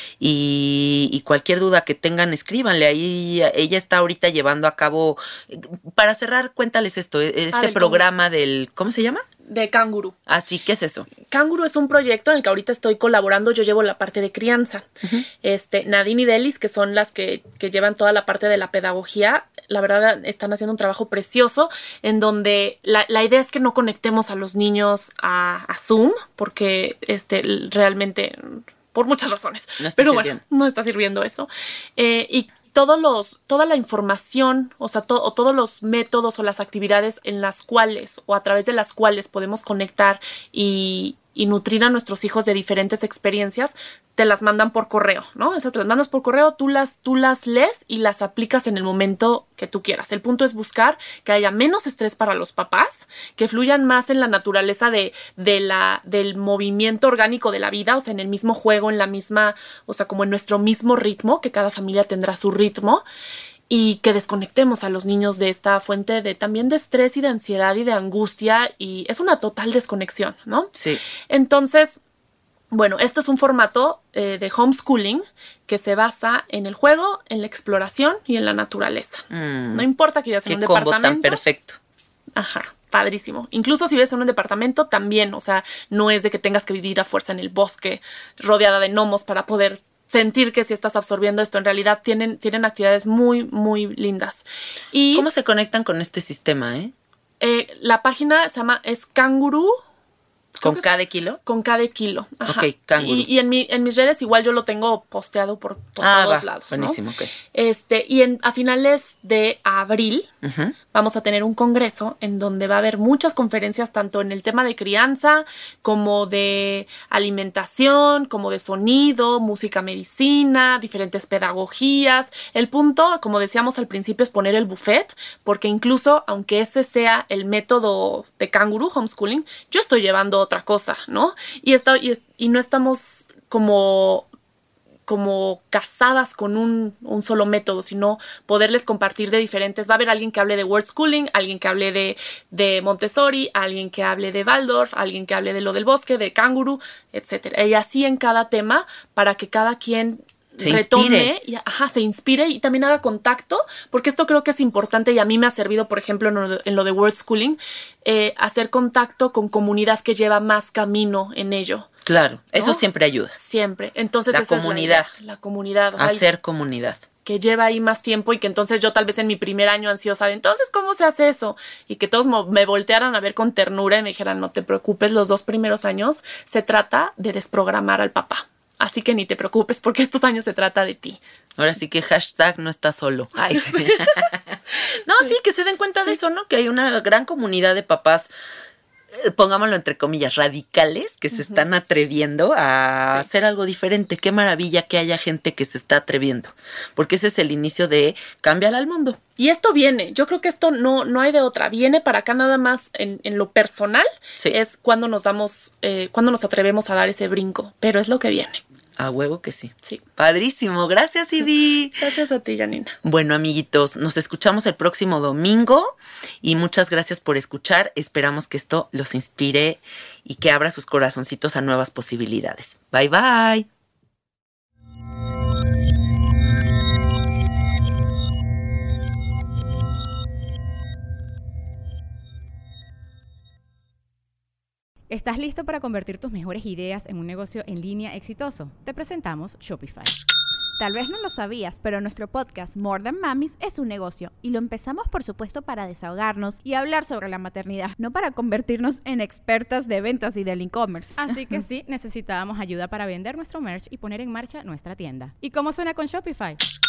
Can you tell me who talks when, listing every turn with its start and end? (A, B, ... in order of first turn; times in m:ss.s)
0:00.2-0:09.2 A
0:07.5-0:08.0 B
0:09.5-0:10.2 B
0:10.3-0:11.1 A
0:11.3-0:14.9 B
0:15.4-1:03.0 B
0:29.8-0:30.4 A
1:03.7-1:10.7 B
1:10.8-1:11.0 A
1:11.3-1:12.0 B
1:12.7-1:21.4 B
1:19.3-1:19.9 A
1:20.5-1:21.8 A
1:22.4-1:35.3 B
1:35.1-1:36.9 A
1:37.4-1:39.8 B
1:40.6-1:40.9 B
1:40.6-1:41.4 A
1:41.4-1:47.0 B
1:42.5-1:43.3 A
1:46.0-1:47.4 A
1:47.5-1:50.3 B
1:50.4-1:50.8 A
1:50.9-2:14.3 B
2:15.1-2:41.9 B
2:30.6-2:31.3 A
2:42.1-2:43.4 A
2:42.6-2:42.8 B
2:43.4-2:46.2 B
2:44.3-2:45.1 A
2:46.0-2:47.0 A
2:47.2-3:01.2 B
3:01.6-3:08.3 A
3:03.6-3:04.3 B
3:09.1-3:19.2 A
3:11.4-3:11.6 B
3:13.0-3:13.3 B
3:19.4-3:28.6 B
3:29.0-3:32.0 A
3:32.0-3:33.0 B
3:33.0-3:43.7 A
3:55.1-4:00.1 C
4:00.8-4:11.6 D
4:11.2-4:16.6 C